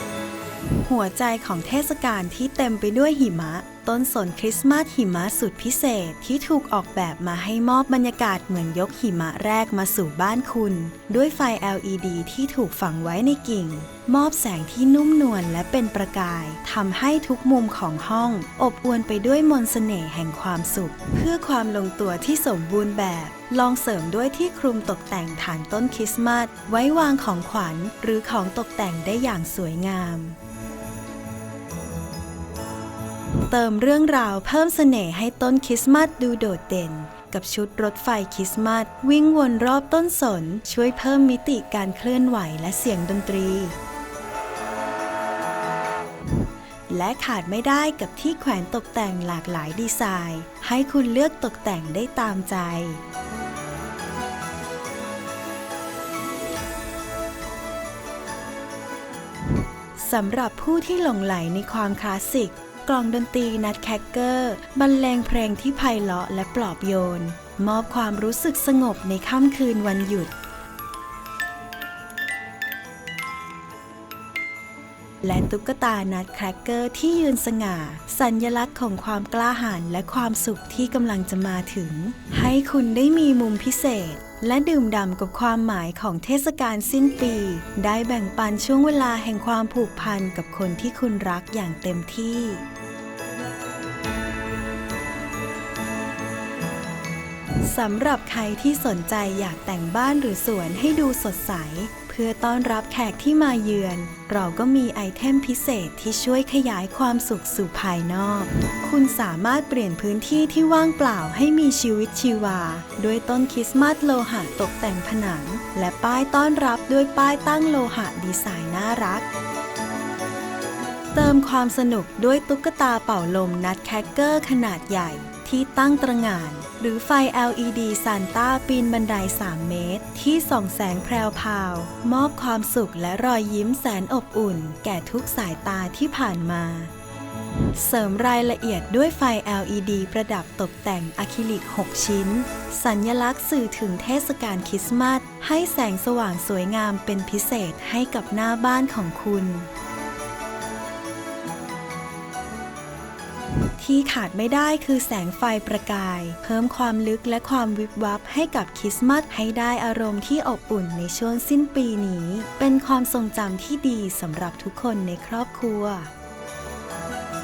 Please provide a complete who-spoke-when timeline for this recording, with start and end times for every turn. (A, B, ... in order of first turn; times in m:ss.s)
0:00.7-0:30.4 A
0:33.4-0:43.7 A
0:46.9-0:53.0 A
1:00.0-1:10.3 A
1:15.2-1:32.6 A
1:37.6-1:59.2 A
2:01.1-2:16.9 A
2:17.7-2:29.7 A
2:33.8-2:46.1 A